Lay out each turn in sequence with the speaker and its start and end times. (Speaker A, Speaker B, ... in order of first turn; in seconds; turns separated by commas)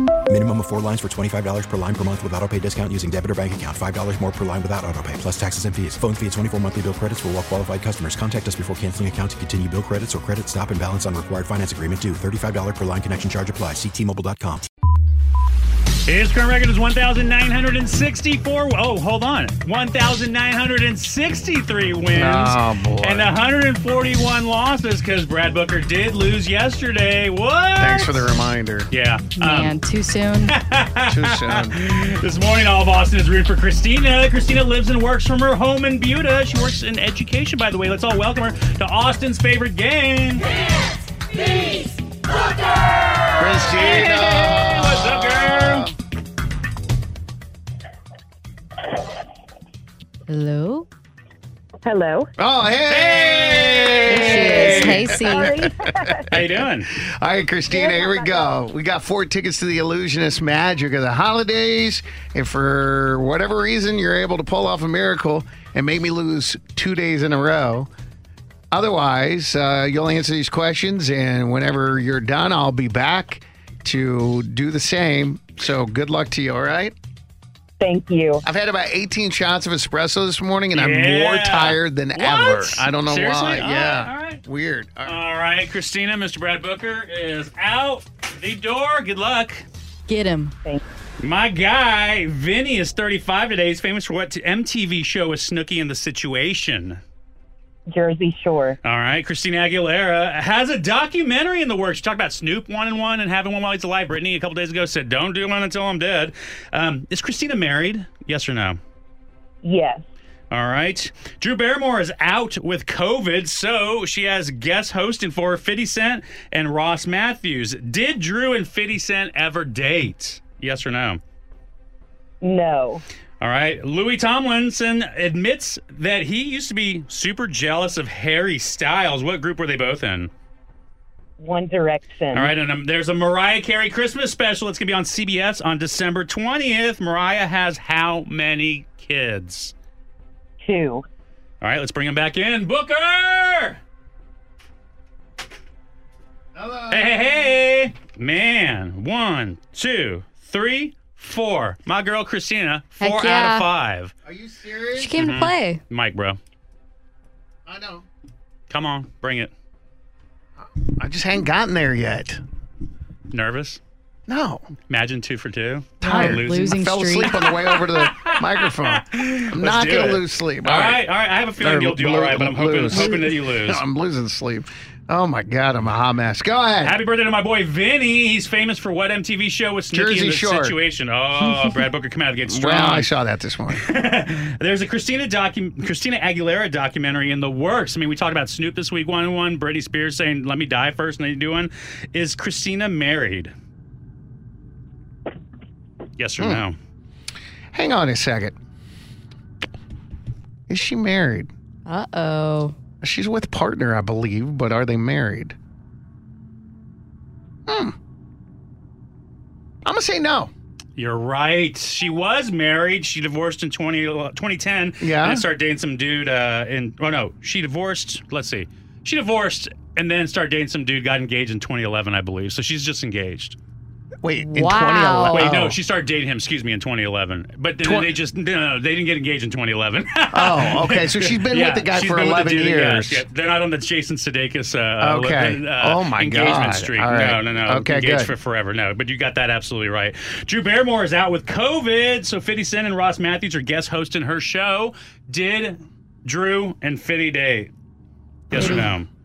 Speaker A: 0.3-14.7, Speaker B: 16.1-28.3, Speaker C: 22.1-23.3, Speaker C: 27.8-28.9, Speaker B: 28.9-29.7, Speaker D: 29.4-30.6, Speaker B: 30.5-40.5, Speaker C: 31.1-31.9, Speaker C: 43.4-45.9, Speaker B: 43.6-45.9, Speaker D: 50.3-50.9, Speaker E: 51.8-52.3, Speaker C: 52.4-55.5, Speaker B: 52.8-55.1, Speaker D: 54.1-55.5, Speaker E: 54.3-56.3, Speaker C: 56.1-67.9, Speaker B: 56.3-56.9, Speaker E: 57.7-58.6, Speaker C: 68.7-76.9, Speaker E: 77.8-78.4, Speaker C: 78.4-85.2, Speaker B: 80.7-84.4, Speaker B: 85.0-89.6, Speaker D: 90.1-90.6, Speaker B: 91.2-97.0, Speaker E: 97.9-98.8, Speaker B: 98.8-108.8, Speaker E: 109.6-110.0, Speaker B: 110.5-121.2, Speaker E: 122.4-123.0, Speaker B: 123.4-130.3, Speaker E: 131.4-132.5, Speaker B: 132.3-139.7, Speaker E: 140.6-141.1, Speaker B: 141.6-143.8, Speaker C: 146.5-147.5, Speaker B: 146.9-154.1, Speaker D: 153.0-153.7, Speaker C: 154.2-155.2, Speaker D: 154.9-155.8, Speaker B: 155.2-156.4, Speaker C: 157.7-158.1, Speaker B: 158.7-159.5, Speaker C: 160.6-162.4, Speaker B: 163.3-163.8, Speaker C: 164.3-164.7, Speaker B: 164.9-166.7, Speaker C: 166.0-171.0, Speaker D: 166.0-167.5, Speaker B: 167.7-173.8, Speaker C: 171.6-177.0, Speaker B: 176.8-183.1, Speaker C: 179.9-180.8, Speaker C: 182.5-183.8, Speaker B: 183.7-193.5, Speaker B: 196.2-196.8, Speaker C: 196.4-196.6, Speaker C: 197.7-198.5, Speaker C: 200.7-201.5, Speaker D: 201.8-202.7, Speaker C: 203.0-205.6, Speaker C: 207.7-207.9, Speaker C: 209.8-210.5, Speaker B: 210.9-223.6, Speaker C: 215.0-215.4, Speaker C: 224.2-225.8, Speaker D: 224.4-225.5, Speaker B: 225.3-247.7, Speaker C: 227.8-228.1, Speaker C: 230.3-233.2, Speaker C: 235.0-238.3, Speaker B: 248.5-249.1, Speaker C: 248.5-248.9